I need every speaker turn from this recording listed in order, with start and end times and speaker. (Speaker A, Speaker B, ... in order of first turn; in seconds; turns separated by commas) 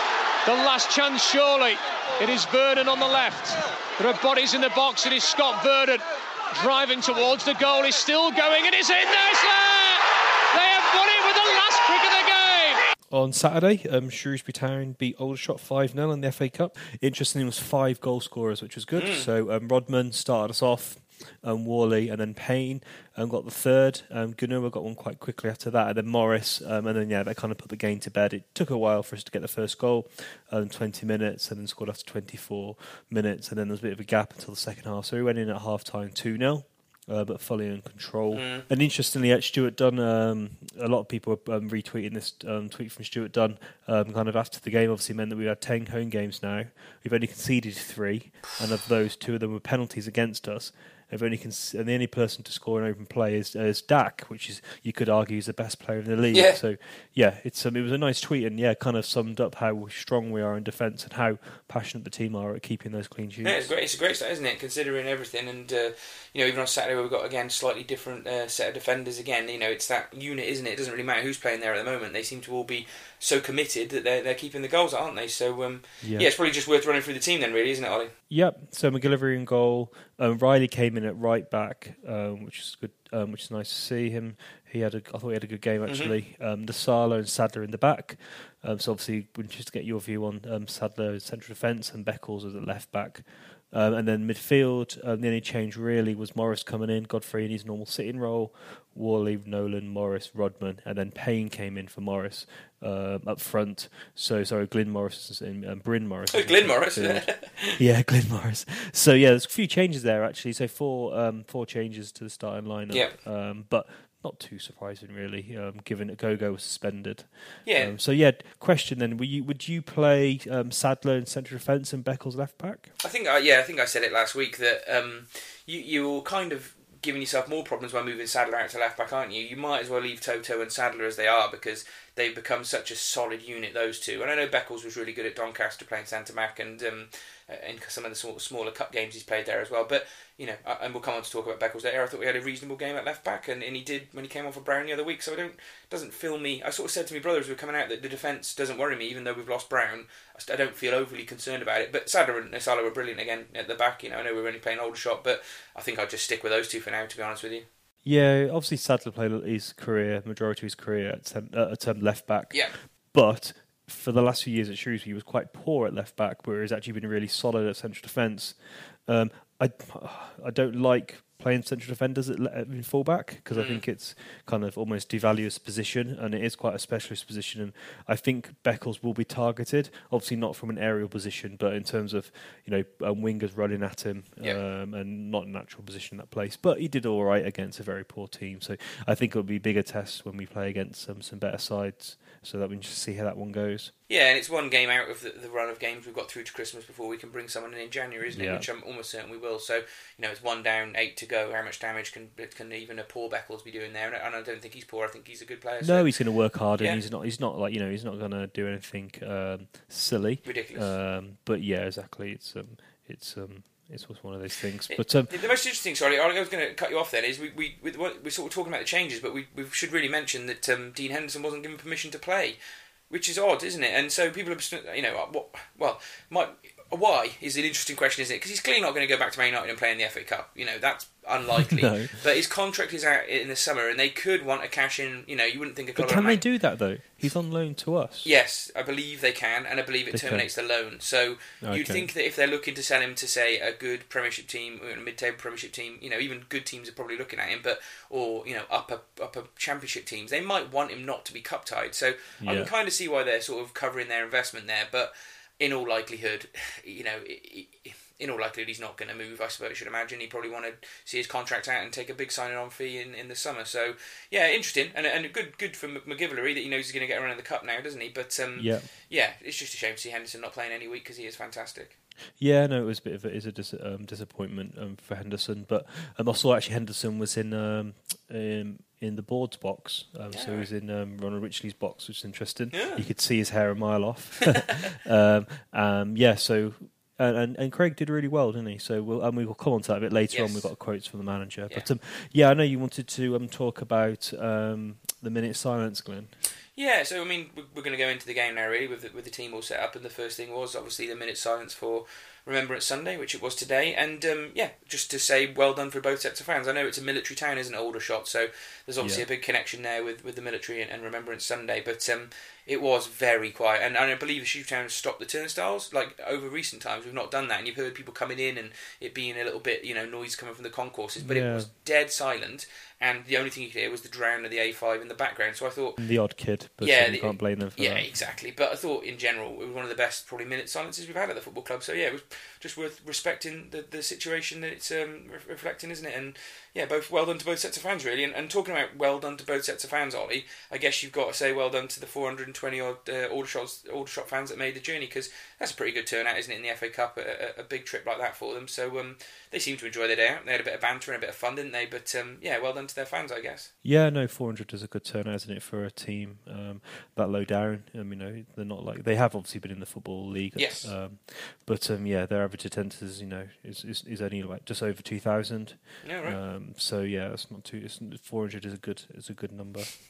Speaker A: 0.5-12.8, Speaker B: 13.1-63.7, Speaker C: 18.9-19.3, Speaker C: 38.3-38.7, Speaker C: 56.3-56.6, Speaker C: 63.4-78.1, Speaker B: 76.0-76.3, Speaker B: 78.3-122.9, Speaker C: 85.8-86.1, Speaker C: 106.3-107.8, Speaker C: 112.9-113.2, Speaker C: 117.6-117.9, Speaker C: 123.0-157.7, Speaker B: 158.0-193.9, Speaker C: 162.5-162.8, Speaker C: 173.5-173.8, Speaker C: 194.1-206.1, Speaker B: 198.3-198.7, Speaker B: 205.8-215.4, Speaker C: 210.4-210.9, Speaker C: 214.9-222.6, Speaker C: 223.1-236.4, Speaker B: 231.5-232.1, Speaker B: 235.9-238.3, Speaker C: 238.2-271.9, Speaker B: 240.1-240.4, Speaker B: 241.6-242.1, Speaker B: 252.4-252.7, Speaker B: 268.6-268.9, Speaker B: 272.4-296.3, Speaker C: 280.3-280.7, Speaker C: 282.7-283.0, Speaker C: 290.3-290.7, Speaker C: 296.8-326.0, Speaker B: 309.0-309.2, Speaker B: 321.2-321.7, Speaker B: 326.0-328.1, Speaker C: 326.8-353.7, Speaker B: 353.8-369.9, Speaker C: 360.6-360.9, Speaker C: 366.0-366.4